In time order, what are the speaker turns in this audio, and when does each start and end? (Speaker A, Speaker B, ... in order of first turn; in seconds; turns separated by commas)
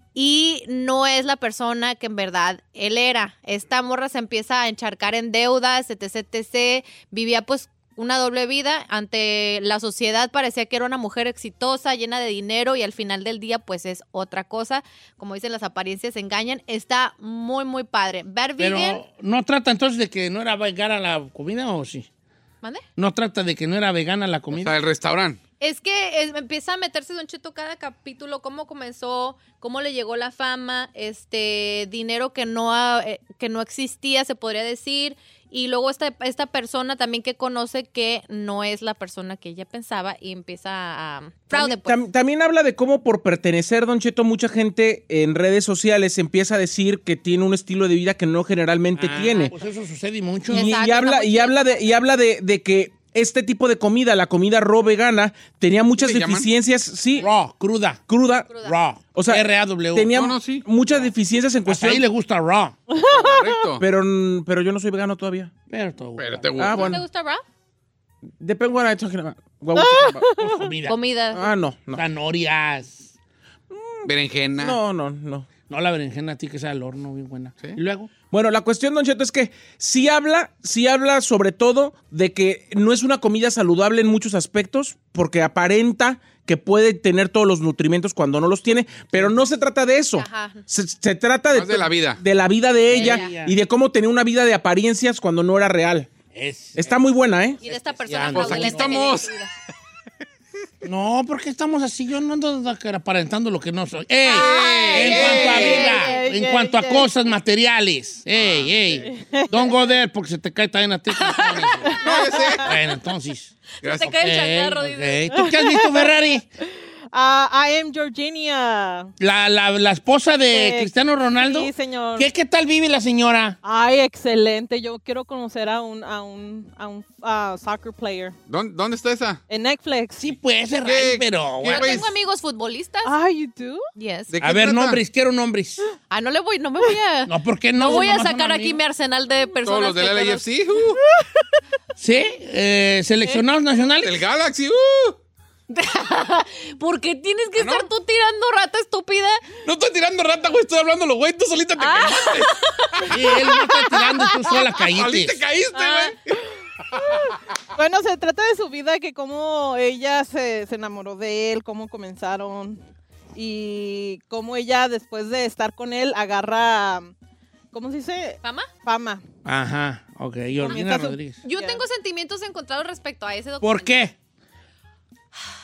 Speaker A: 0.1-19.0, Speaker B: 18.6-22.1, Speaker B: 23.0-24.8, Speaker C: 24.5-25.4, Speaker A: 25.6-42.0, Speaker D: 41.5-49.5, Speaker B: 49.0-50.7, Speaker A: 50.5-51.9, Speaker D: 50.5-57.3, Speaker C: 56.0-56.5, Speaker B: 57.2-58.0, Speaker D: 58.1-58.5, Speaker A: 58.5-58.8, Speaker B: 58.6-60.2, Speaker D: 59.1-62.0, Speaker C: 60.1-60.7, Speaker B: 61.7-62.8, Speaker E: 62.9-63.8, Speaker C: 63.1-63.8, Speaker D: 63.8-65.5, Speaker B: 65.7-66.9, Speaker C: 66.2-67.0, Speaker D: 66.6-67.0, Speaker A: 66.7-67.4, Speaker D: 68.4-70.2, Speaker E: 69.7-70.7, Speaker B: 70.4-71.0, Speaker A: 70.9-71.5, Speaker D: 71.3-72.0, Speaker B: 71.9-73.1, Speaker D: 73.7-75.5, Speaker C: 74.0-74.8, Speaker B: 75.7-78.1, Speaker D: 78.3-96.1, Speaker A: 90.2-90.6, Speaker C: 91.5-92.2, Speaker B: 92.9-93.5, Speaker A: 93.0-93.3, Speaker B: 96.3-97.0, Speaker D: 96.8-97.6, Speaker A: 97.6-99.5, Speaker B: 97.6-99.1, Speaker C: 98.3-99.3, Speaker B: 100.8-112.0, Speaker A: 104.3-106.2, Speaker C: 104.3-105.9, Speaker E: 104.9-107.1, Speaker C: 108.3-109.1, Speaker E: 109.0-109.8, Speaker A: 111.2-112.2, Speaker C: 112.0-112.8, Speaker E: 112.0-112.5, Speaker B: 112.6-116.5, Speaker C: 113.8-114.2, Speaker A: 113.8-115.2, Speaker E: 115.3-116.1, Speaker E: 117.1-119.1, Speaker B: 119.2-123.6, Speaker E: 120.5-122.3, Speaker E: 123.6-128.3, Speaker C: 128.5-129.4, Speaker E: 129.5-130.3, Speaker B: 130.2-132.0, Speaker C: 130.8-132.1, Speaker A: 131.7-133.2, Speaker E: 133.1-133.9, Speaker A: 134.0-134.3, Speaker C: 134.3-135.0, Speaker B: 134.4-135.8, Speaker A: 136.1-140.5, Speaker B: 137.3-138.8, Speaker C: 139.7-141.0, Speaker B: 142.0-144.2, Speaker C: 144.0-145.2, Speaker A: 145.7-149.5, Speaker C: 147.6-147.9, Speaker C: 149.6-152.5, Speaker A: 151.8-153.1, Speaker B: 153.1-155.4, Speaker C: 154.9-156.2, Speaker E: 155.8-156.1, Speaker E: 157.8-162.8, Speaker E: 163.3-167.1, Speaker E: 167.7-169.2, Speaker A: 168.4-168.7, Speaker B: 169.4-171.4, Speaker E: 170.6-171.8, Speaker A: 171.4-174.0, Speaker B: 173.6-174.2